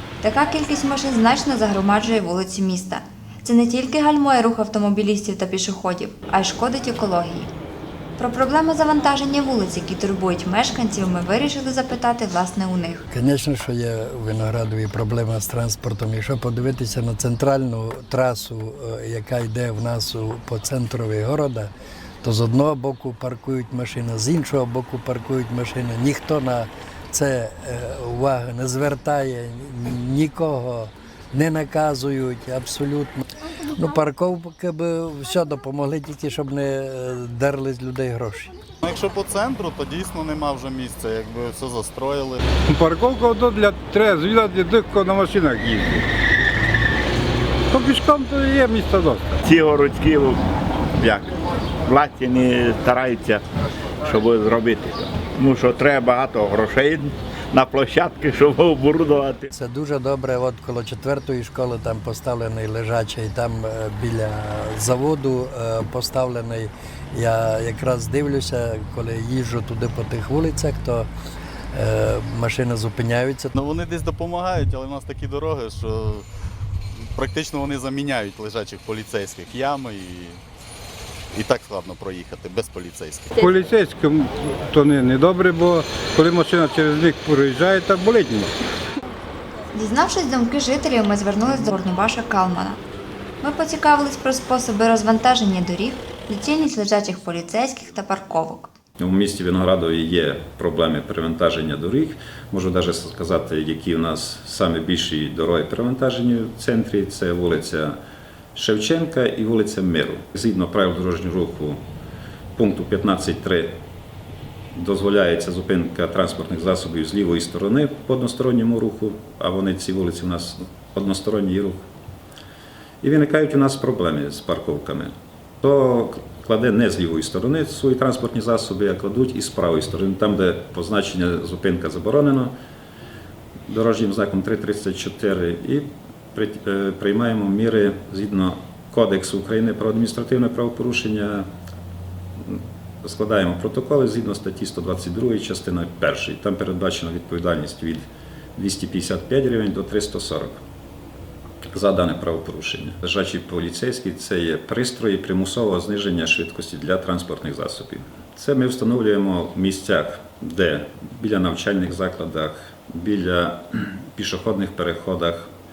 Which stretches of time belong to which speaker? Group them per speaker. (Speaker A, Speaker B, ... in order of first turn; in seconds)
Speaker A: 0.2-7.5, 8.2-13.0, 89.7-92.8, 93.4-98.7
Speaker B: 13.1-21.7, 22.2-38.5, 59.5-71.1, 71.7-73.5
Speaker C: 38.8-42.4, 73.5-76.2, 77.2-80.4, 81.3-83.6
Speaker D: 42.7-45.9, 47.7-49.2, 83.4-88.5
Speaker E: 49.4-50.4, 51.0-51.3, 51.8-53.4, 54.0-59.5
Speaker F: 99.0-108.0, 108.5-111.8, 112.5-113.8, 114.7-121.8, 123.0-125.1, 125.6-132.5, 133.7-141.5, 142.4-150.6, 151.7-165.5